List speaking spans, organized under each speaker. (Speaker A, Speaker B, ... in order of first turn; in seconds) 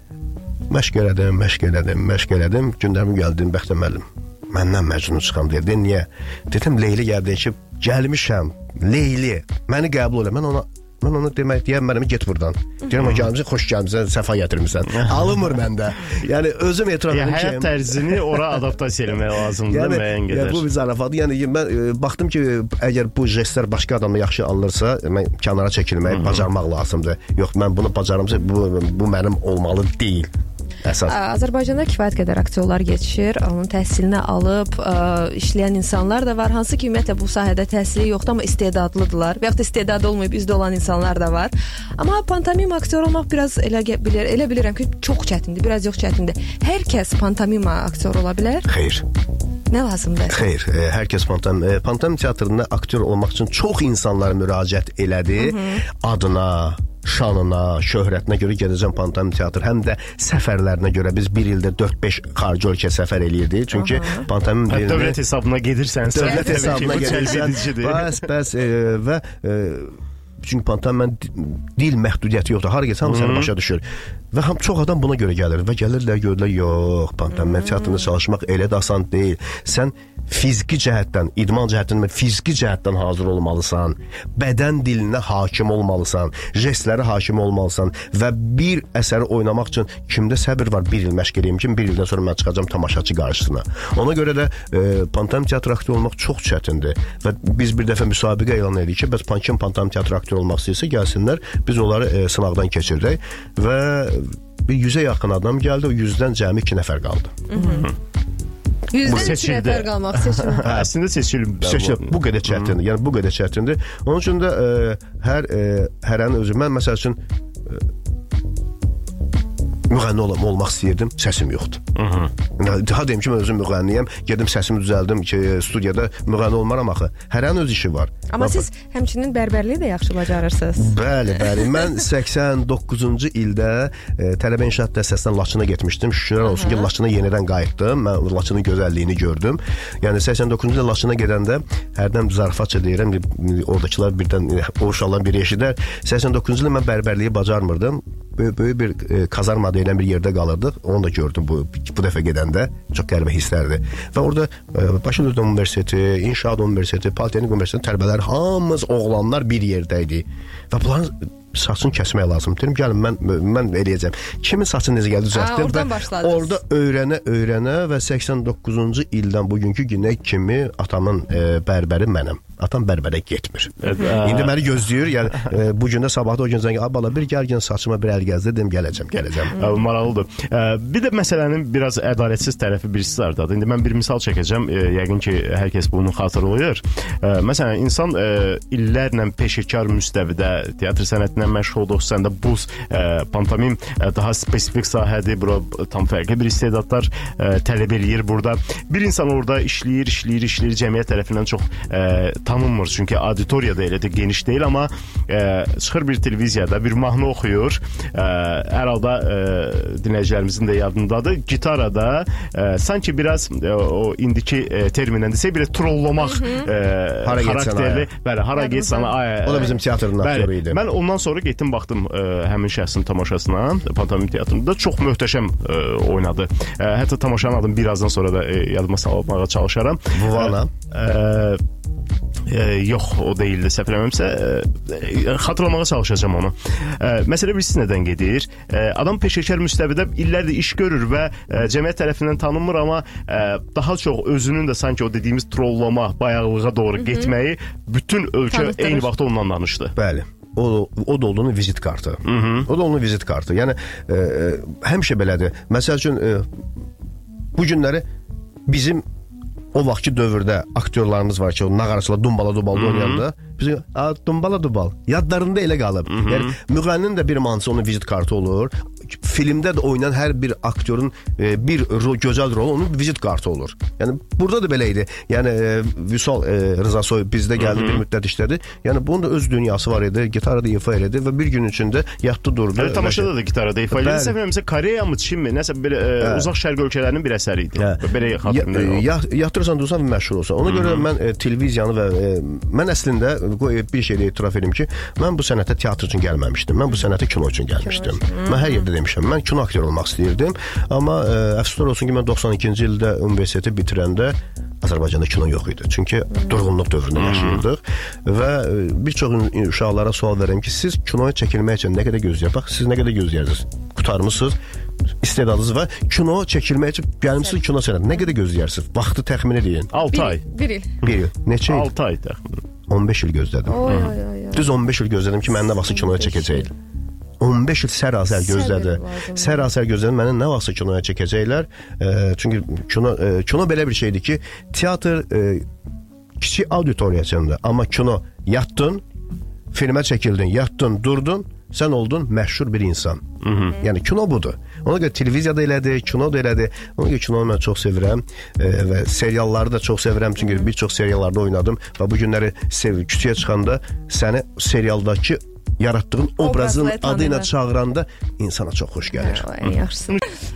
Speaker A: 0.7-18.6, 19.7-30.3, 30.8-31.2, 48.7-49.0, 50.3-65.2, 66.1-107.4, 109.1-109.3, 110.6-110.9, 111.6-117.8, 119.9-121.8, 122.5-128.6, 130.7-179.6, 217.2-218.1, 219.4-220.8, 230.1-230.7, 249.9-256.5, 257.5-258.0, 258.7-259.0, 259.7-283.3, 283.9-284.4, 286.2-286.5, 287.8-314.6, 315.2-319.9, 321.0-321.9, 322.9-326.7, 327.4-335.6, 336.4-339.0, 339.7-359.5
Speaker B: 14.9-15.2, 17.1-20.6, 26.1-26.5, 64.7-68.2, 73.0-73.5, 107.5-107.9, 109.0-112.7, 121.9-122.3, 173.8-174.6, 179.5-231.6, 232.5-249.9, 252.2-252.7, 262.7-263.2, 266.1-266.5, 277.6-278.0, 282.7-289.0, 290.6-291.1, 307.2-307.6, 319.9-320.4, 321.6-322.6, 323.9-324.1, 343.4-343.8
Speaker C: 31.0-48.7, 49.7-50.4, 55.4-55.8, 63.7-64.2, 66.2-67.0, 107.5-107.9, 108.9-110.6, 128.3-130.9, 136.4-136.9, 165.3-166.6, 218.6-219.1, 247.0-247.3, 248.5-249.1, 297.9-298.8, 320.1-320.9, 323.6-324.7, 325.6-326.7, 328.3-329.7, 356.4-357.5, 359.1-360.2